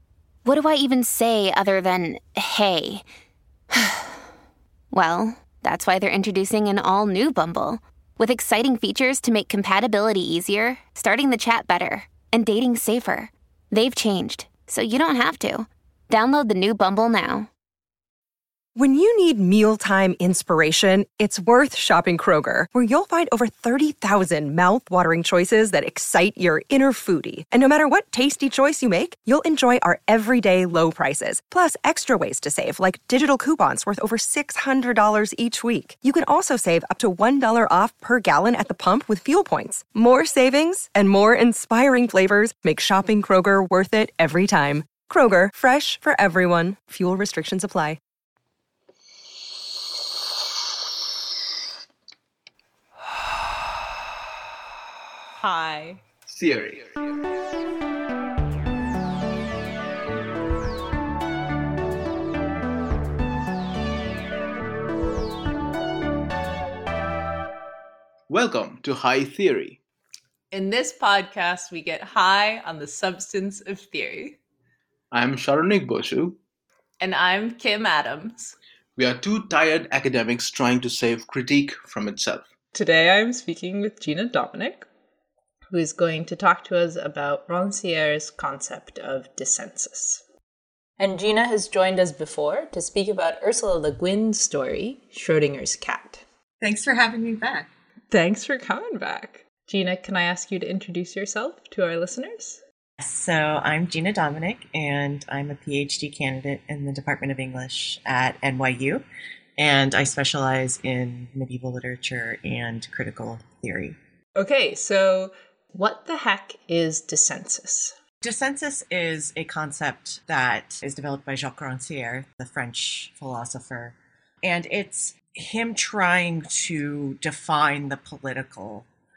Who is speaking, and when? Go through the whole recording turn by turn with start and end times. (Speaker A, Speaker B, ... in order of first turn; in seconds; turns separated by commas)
Speaker A: 0.4-3.0, Speaker A: 3.7-4.1, Speaker A: 4.9-17.5, Speaker B: 18.7-48.0, Speaker C: 55.4-56.0, Speaker D: 56.3-56.8, Speaker D: 68.3-69.8, Speaker C: 70.5-74.4, Speaker D: 75.1-76.4, Speaker C: 77.0-78.5, Speaker D: 79.0-82.5, Speaker C: 82.7-84.9, Speaker C: 85.7-90.2, Speaker C: 91.0-96.2, Speaker E: 96.6-97.7, Speaker C: 98.1-102.6, Speaker E: 103.0-109.0, Speaker E: 109.6-114.0, Speaker C: 114.3-117.9, Speaker E: 118.2-128.9